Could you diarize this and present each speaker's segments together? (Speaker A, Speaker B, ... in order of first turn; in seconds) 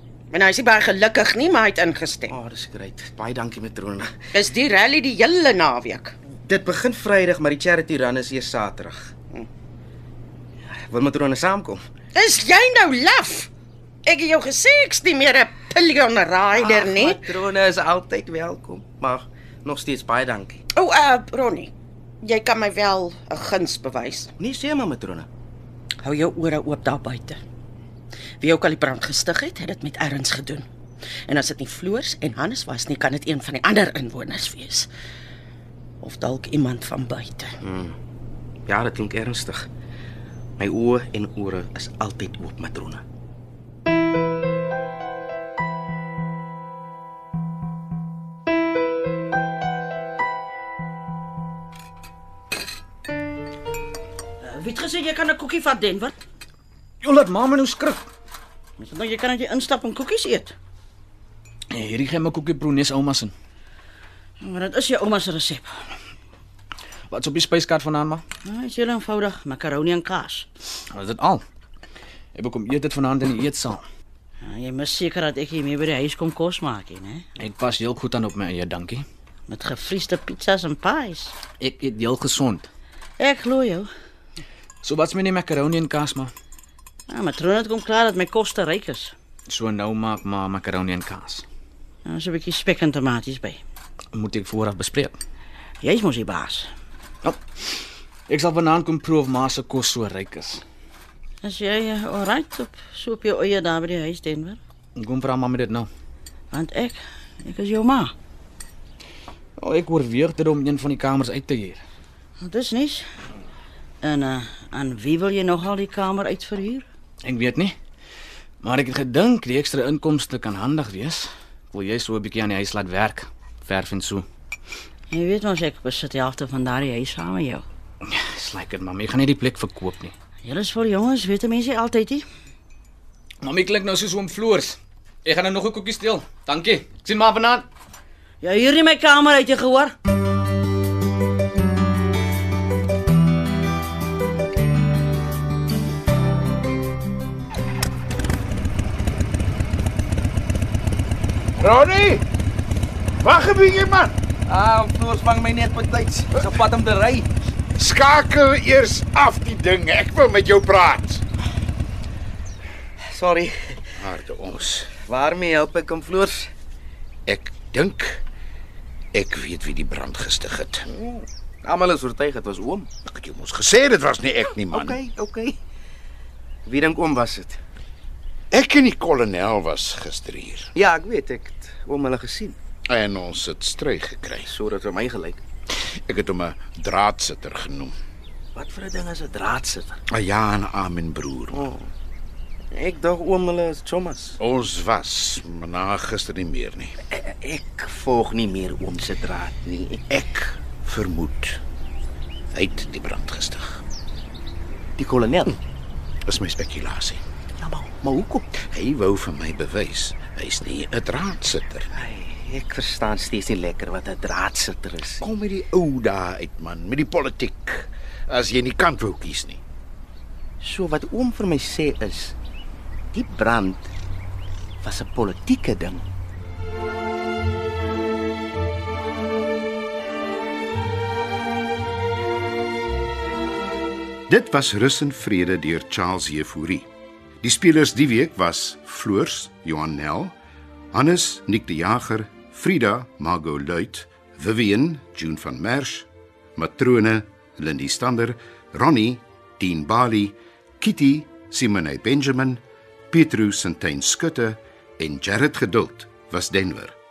Speaker A: 0.3-2.3, 4.3-6.1, 12.1-13.4, 14.0-17.1, 20.7-21.7, 22.2-24.3, 26.0-27.4, 28.4-30.6, 31.3-34.9, 36.0-37.5
Speaker B: 2.3-4.2, 6.5-9.2, 10.7-11.8, 16.5-20.6, 24.4-25.3, 37.6-38.0, 38.6-39.7, 40.6-43.0, 154.4-157.3, 163.1-163.8, 165.0-166.5, 170.9-172.9, 174.7-175.6, 176.7-177.6, 180.7-182.6, 184.4-185.4, 188.5-190.0, 191.5-191.9, 192.7-194.4, 197.1-200.0, 205.0-205.6, 207.6-208.5, 211.9-215.2, 220.6-222.3, 223.1-223.9, 224.8-226.1
Speaker C: 54.4-56.1, 58.8-60.5, 64.4-65.7, 68.4-70.5, 74.4-77.2, 79.5-81.3, 83.2-83.9, 87.1-89.1, 92.0-93.6, 95.8-96.7, 101.4-104.6, 106.5-108.1, 112.4-113.0, 114.0-116.8, 125.1-127.6, 130.4-132.2, 138.4-139.9
Speaker D: 57.0-58.0, 61.7-63.3, 67.1-68.2, 70.9-71.4, 72.3-73.8, 77.4-79.0, 81.6-82.7, 84.8-86.3, 89.5-91.4, 94.1-95.2, 98.3-100.6, 105.0-105.9, 109.6-111.8, 117.2-117.7, 118.6-124.2, 128.0-130.1, 133.4-137.7
Speaker E: 151.6-152.2, 153.2-154.2, 157.7-161.2, 164.0-164.9, 167.2-168.2, 169.1-170.8, 173.0-175.0, 178.5-180.7, 182.9-184.5, 186.1-187.9, 190.1-191.7, 194.4-196.9, 200.1-201.6, 202.5-203.8, 206.2-207.2, 208.5-211.9, 215.2-219.6, 234.3-236.9, 237.4-240.3, 240.9-256.9